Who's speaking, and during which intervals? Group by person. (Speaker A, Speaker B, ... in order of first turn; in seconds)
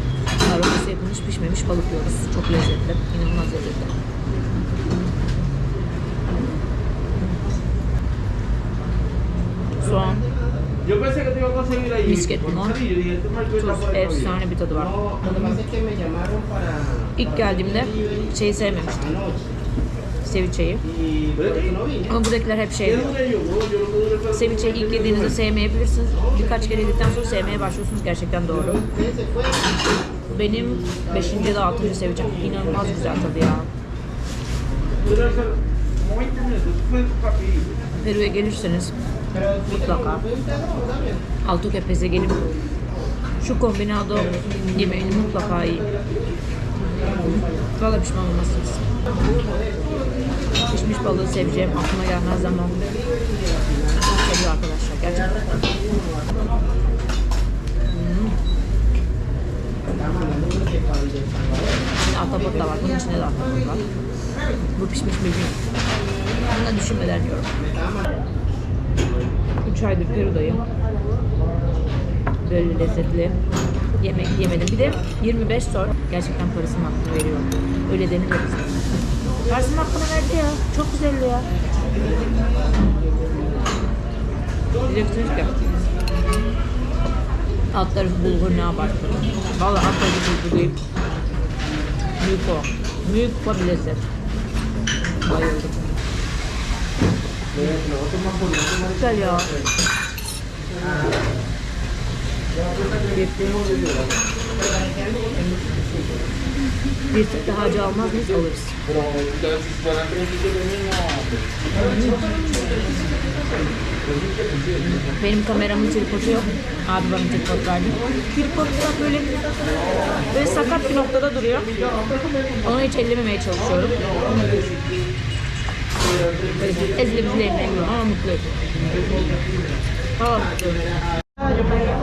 Speaker A: 0.4-4.0, 9.8-10.3, 12.0-12.8, 13.6-15.6, 17.2-19.1, 20.2-20.9, 22.0-23.1, 24.3-28.9, 30.3-33.7, 38.0-38.9, 39.7-40.3, 41.4-42.5, 43.4-45.9, 47.7-48.9, 50.7-53.0, 53.9-55.5, 57.9-58.4, 62.0-63.9, 64.8-65.6, 66.4-67.5, 69.6-70.6, 72.4-73.4, 74.0-78.8, 79.5-81.5, 84.8-85.5, 87.7-90.8, 92.2-94.1, 95.2-96.0, 98.9-99.5, 103.1-103.6, 107.1-108.8, 111.8-112.3, 115.0-119.5, 120.3-121.7, 122.6-124.4, 126.6-128.5, 130.2-130.7
Speaker B: 10.9-12.0, 12.9-13.4, 21.4-21.8, 23.5-24.1, 35.0-37.8, 97.8-98.8, 103.5-104.1, 109.0-111.4, 112.3-113.3, 114.3-114.7